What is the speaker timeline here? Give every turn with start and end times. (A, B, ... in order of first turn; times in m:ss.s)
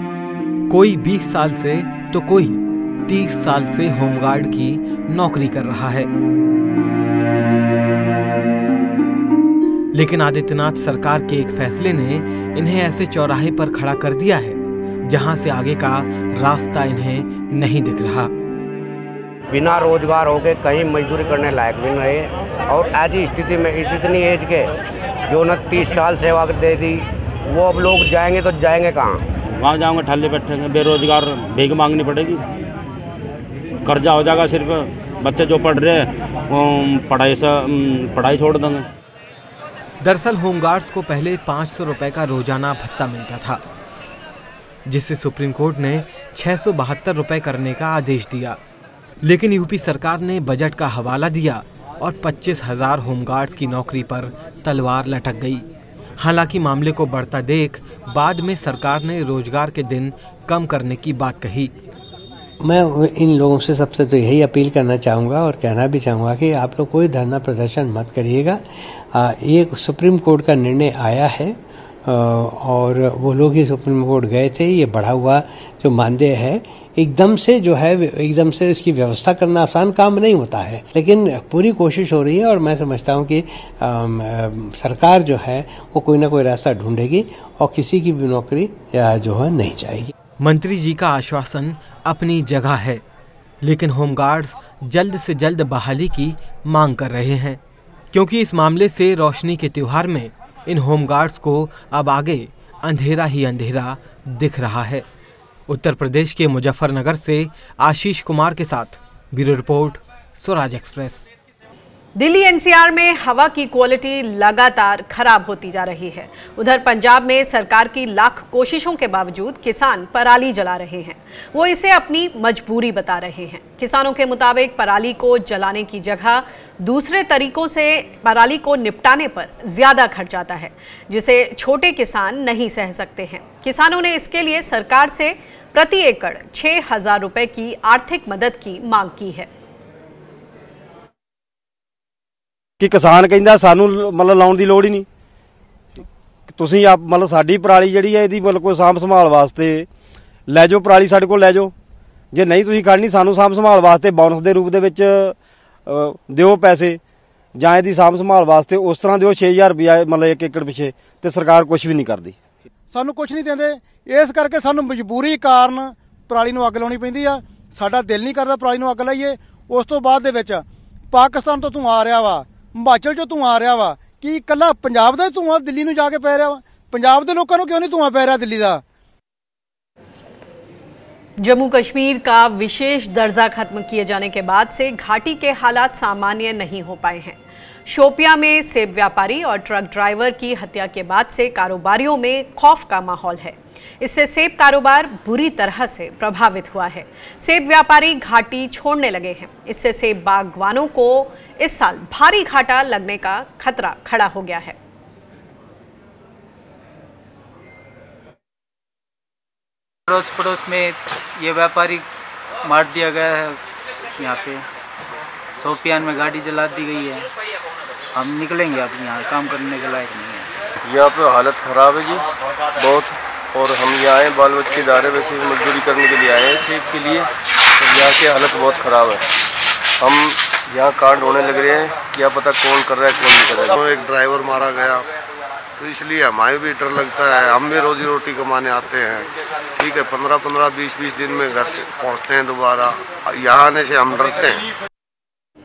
0:00.7-0:06.1 A
0:09.9-0:18.3 A
0:19.5-0:24.7 B
0:25.3-0:29.2 B
0:29.6-0:32.4 C
0:33.8-0:38.8 C
0:40.0-0:43.6 A
0:44.9-0:48.6 A
0:49.2-0:55.6 A
0:56.2-1:01.7 A
1:02.6-1:30.1 D
1:30.4-1:33.0 A
1:33.6-1:37.6 A
1:38.1-1:45.0 A
1:45.7-1:51.2 A
1:52.2-2:19.5 E
2:22.8-2:25.1 F
2:26.5-2:29.9 F
2:30.5-2:31.7 F
2:32.3-2:35.3 F
2:35.9-2:37.0 F
2:37.6-2:42.4 F
2:42.9-2:58.8 G
3:01.4-3:24.8 E
3:30.1-3:32.0 H
3:32.6-3:33.6 H
3:34.2-3:34.6 H
3:35.6-3:37.3 H
3:38.1-3:40.5 H
3:40.8-3:42.2 I
3:42.8-3:49.3 I
3:50.0-3:53.8 I
3:53.8-3:55.0 J
3:55.8-3:59.2 J
3:59.8-4:04.6 J